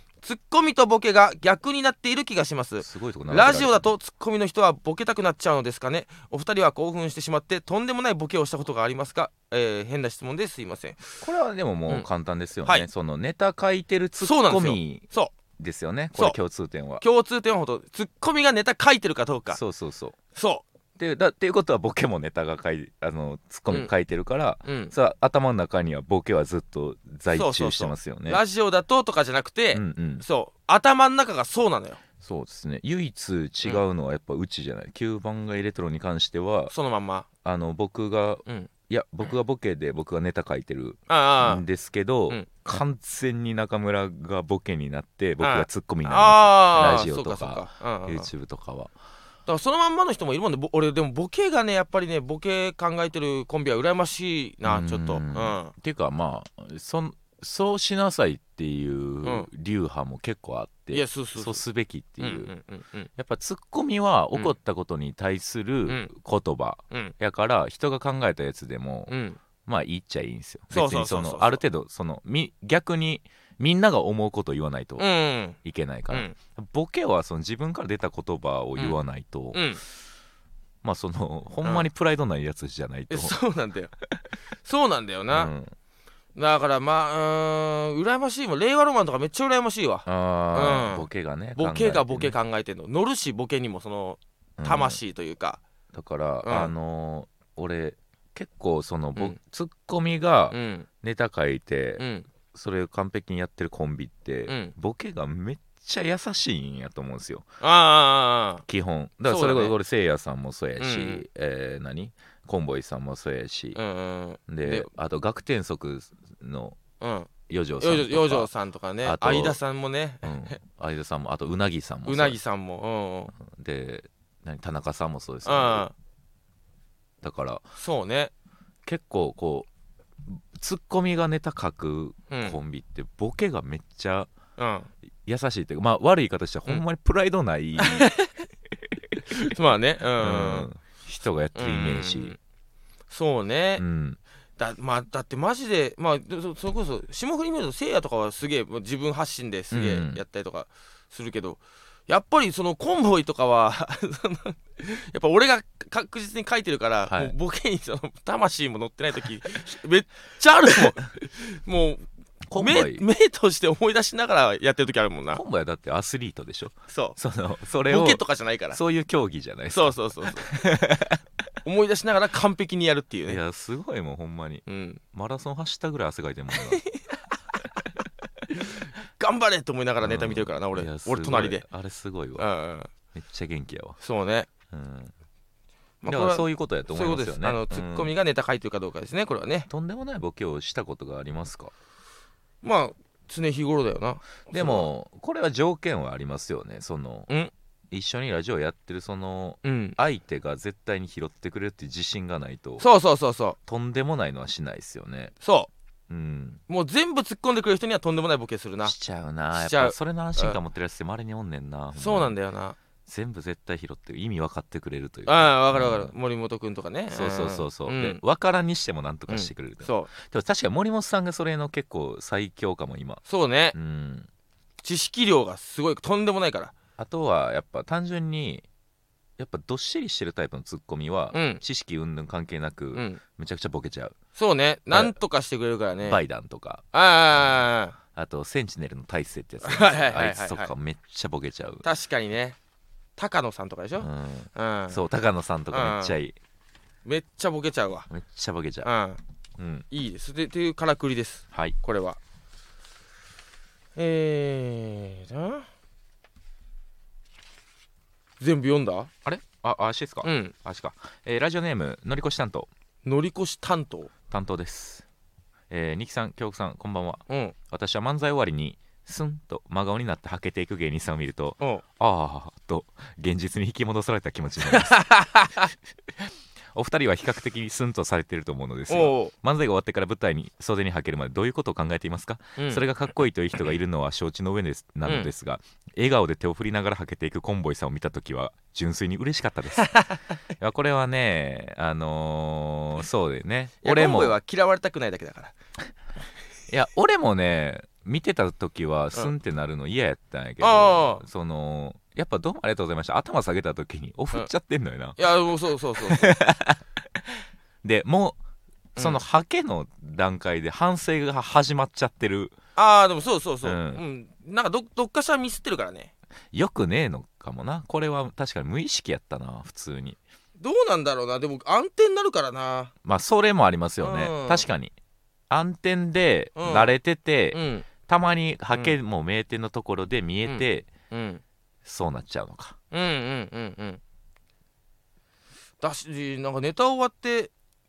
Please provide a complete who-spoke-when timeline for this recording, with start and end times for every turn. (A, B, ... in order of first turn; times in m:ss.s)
0:00.2-0:11.0 A
0:02.8-0:03.9 B
0:11.2-0:17.0 B
0:14.2-0:15.3 A
0:17.0-0:19.6 A
0:19.5-0:20.2 B
0:20.3-0:20.6 A
0:21.0-0:28.4 B
0:24.6-0:24.9 A
0:27.3-0:32.0 A
0:29.7-0:30.2 B
0:32.2-0:36.7 B
0:36.7-0:37.3 A
0:37.4-0:48.9 B
0:41.1-0:41.6 A
0:45.4-0:48.3 A
0:49.4-0:55.7 A
0:54.6-1:02.5 B
0:59.2-0:59.5 A
1:00.9-1:01.6 A
1:02.2-1:03.1 A
1:03.2-1:15.0 B
1:09.1-1:09.4 A
1:10.7-1:11.6 A
1:15.0-1:15.6 A
1:15.6-1:19.7 B
1:19.5-1:19.8 A
1:20.8-1:23.4 B
1:23.1-1:23.9 A
1:24.6-1:25.5 A
1:25.3-1:25.7 B
1:26.3-1:35.6 A
1:30.0-1:32.4 B
1:34.6-1:35.0 B
1:35.9-1:47.5 B
1:36.4-1:36.7 A
1:40.5-1:40.9 A
1:42.0-1:42.3 A
1:44.5-1:44.7 A
1:47.6-1:48.6 A
1:48.6-1:53.8 B
1:49.2-1:49.7 A
1:50.8-1:51.2 A
1:53.7-1:54.9 A
1:54.5-1:56.8 B
1:57.0-2:00.5 A
1:57.5-1:58.5 B
1:59.0-1:59.6 B
2:00.2-2:02.4 B
2:02.0-2:03.3 A
2:03.4-2:05.9 B
2:05.4-2:05.9 A
2:07.2-2:07.6 B
2:07.8-2:08.3 A
2:08.8-2:09.7 B
2:10.2-2:14.3 B
2:12.3-2:12.6 A
2:14.6-2:14.9 A
2:15.2-2:18.1 B
2:17.8-2:18.3 A
2:19.4-2:20.7 A
2:20.2-2:22.4 B
2:21.5-2:22.4 A
2:23.1-2:23.8 A
2:23.8-2:24.2 B
2:24.6-2:42.0 A
2:29.7-2:30.2 B
2:37.1-2:37.3 B
2:42.5-2:43.0 B
2:42.6-2:45.4 A
2:45.3-2:51.2 B
2:46.9-2:47.2 A
2:47.9-2:48.8 A
2:49.7-2:50.5 A
2:51.6-2:53.4 A
2:53.3-2:56.8 B
2:54.6-2:55.0 A
2:56.5-2:57.4 A
2:58.5-3:01.6 A
3:00.0-3:02.4 B
3:02.4-3:02.9 A
3:03.1-3:04.0 B
3:04.0-3:04.5 A
3:04.7-3:05.1 B
3:06.0-3:09.7 A
3:06.0-3:08.1 B
3:09.7-3:11.7 B
3:12.6-3:14.9 A
3:14.5-3:17.3 B
3:17.9-3:22.8 B
3:19.6-3:20.0 A
3:22.8-3:23.6 A
3:23.6-3:25.3 B
3:25.4-3:25.7 A
3:26.1-3:26.6 B
3:26.7-3:28.9 A
3:28.8-3:32.4 B
3:29.6-3:30.6 A
3:32.0-3:32.8 A
3:33.0-3:36.1 B
3:35.3-3:38.2 A
3:37.1-3:43.2 B
3:39.3-3:40.1 A
3:43.2-3:43.8 A
3:43.7-3:44.3 B
3:44.8-3:46.7 A
3:47.0-3:48.6 B
3:49.4-3:54.2 B
3:51.3-3:51.6 A
3:52.9-3:53.2 A
3:54.3-3:56.2 A
3:56.0-3:56.8 B
3:56.9-3:58.0 A
3:58.1-4:01.8 B
3:59.6-4:00.7 A
4:01.8-4:02.6 A
4:03.2-4:05.0 A
4:04.0-4:06.4 B
4:05.7-4:06.2 A
4:07.0-4:08.1 A
4:08.1-4:08.9 B
4:08.8-4:09.2 A
4:09.6-4:09.8 B
4:09.9-4:12.2 A
4:14.0-4:15.7 A
4:18.4-4:19.3 A
4:19.3-4:22.7 B
4:20.2-4:20.5 A
4:23.0-4:24.1 A
4:24.3-4:25.0 B
4:25.7-4:35.0 B
4:27.3-4:27.5 A
4:34.7-4:35.6 A
4:36.7-4:54.4 B
4:38.9-4:39.3 A
4:42.6-4:42.8 A
4:45.0-4:45.3 A
4:53.8-4:55.5 A
4:56.7-5:05.3 B
5:00.6-5:01.2 A
5:05.2-5:06.4 A
5:06.0-5:08.4 B
5:09.0-5:12.6 B
5:12.8-5:16.1 A
5:13.6-5:14.0 B
5:16.5-5:20.2 B
5:20.6-5:22.9 A
5:23.0-5:24.9 B
5:24.0-5:24.6 A
5:25.5-5:30.9 B
5:26.6-5:26.9 A
5:27.5-5:27.9 A
5:30.4-5:31.4 A
5:31.8-5:32.8 B
5:32.9-5:34.0 A
5:35.8-5:37.5 A